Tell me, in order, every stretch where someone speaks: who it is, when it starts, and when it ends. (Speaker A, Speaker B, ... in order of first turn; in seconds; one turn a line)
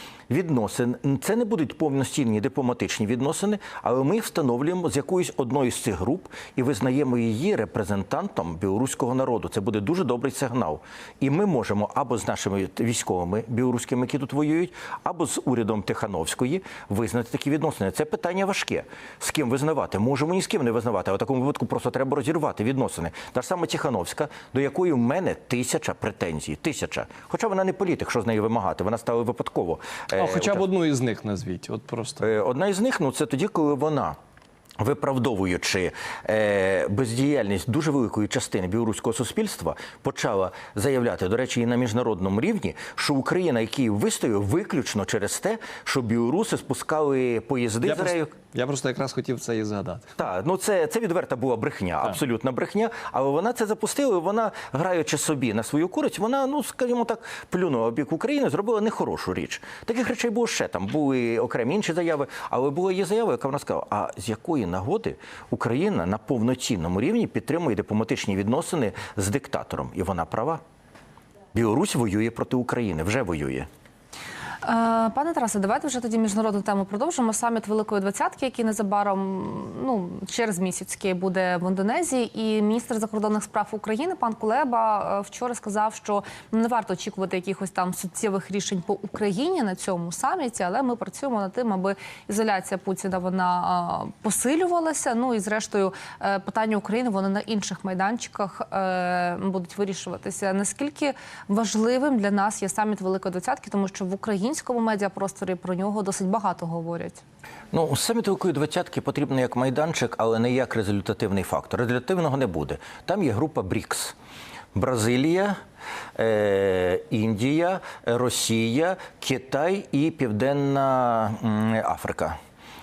Speaker A: 0.3-30.7
Speaker B: 30.2-32.2
Speaker A: 32.2-34.1
Speaker A: 34.8-48.3
Speaker B: 47.8-50.1
Speaker A: 50.2-70.6
Speaker A: 71.5-73.7
Speaker C: 74.6-107.2
Speaker A: 107.7-114.2
Speaker A: 114.7-115.5
Speaker A: 116.2-122.4